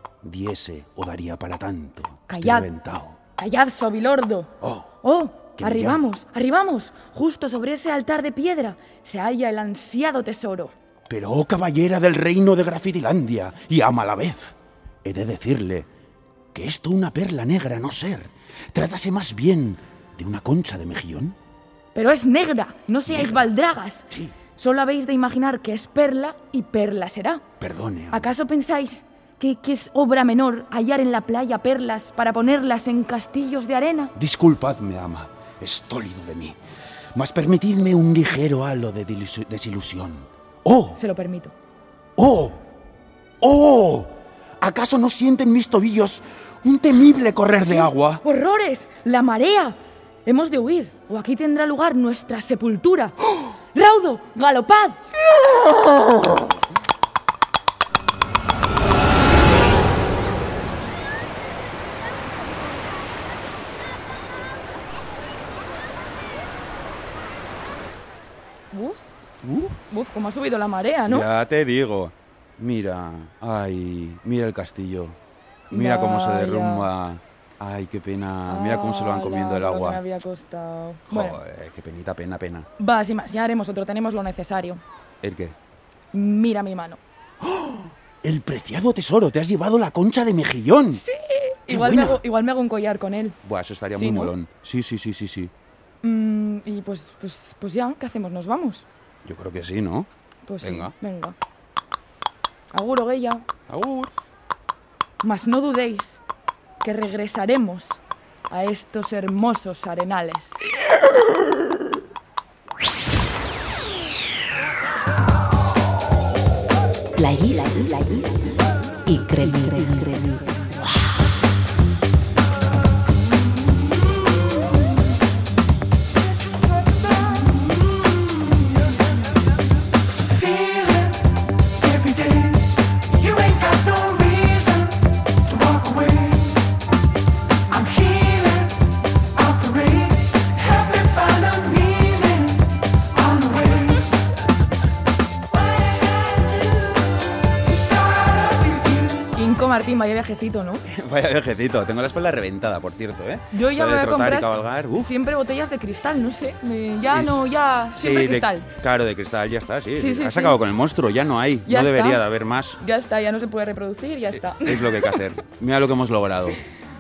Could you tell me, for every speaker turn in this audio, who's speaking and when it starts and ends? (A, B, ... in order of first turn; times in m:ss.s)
0:00.2-0:03.2 A
0:02.3-0:02.7 B
0:03.4-0:10.7 B
0:04.6-0:04.9 A
0:05.6-0:06.0 A
0:11.1-0:15.9 A
0:16.5-0:21.4 A
0:21.9-0:27.4 B
0:23.1-0:23.4 A
0:24.1-0:24.4 A
0:27.6-0:28.3 A
0:28.1-0:34.1 B
0:34.2-0:36.6 A
0:37.2-0:41.0 A
0:41.0-0:41.5 B
0:42.2-0:42.6 A
0:43.4-0:48.2 A
0:47.6-0:55.0 B
1:08.7-1:09.0 B
1:09.4-1:09.8 A
1:09.9-1:11.3 B
1:11.1-1:15.2 A
1:15.7-1:16.9 B
1:15.7-1:20.0 A
1:18.5-1:21.4 B
1:21.1-1:22.7 A
1:22.8-1:24.8 B
1:25.2-1:25.6 A
1:26.1-1:27.0 B
1:27.4-1:31.0 A
1:30.9-1:33.4 B
1:31.7-1:32.2 A
1:33.4-1:35.5 A
1:33.9-1:34.3 B
1:36.0-1:38.9 B
1:39.2-1:40.1 A
1:40.5-1:41.4 B
1:40.6-1:40.9 A
1:42.7-1:43.4 B
1:43.7-1:44.1 A
1:45.2-1:46.2 B
1:46.8-1:50.6 B
1:57.2-1:58.4 C
1:59.1-2:00.6 C
2:13.3-2:13.8 A
2:21.4-2:21.7 A
2:29.3-2:30.8 B
2:30.9-2:35.1 A
2:33.5-2:38.7 B
2:37.1-2:37.4 A
2:37.9-2:42.8 A
2:40.0-2:40.6 B
2:41.7-2:42.2 B
2:42.8-2:45.2 B
2:44.3-2:46.6 A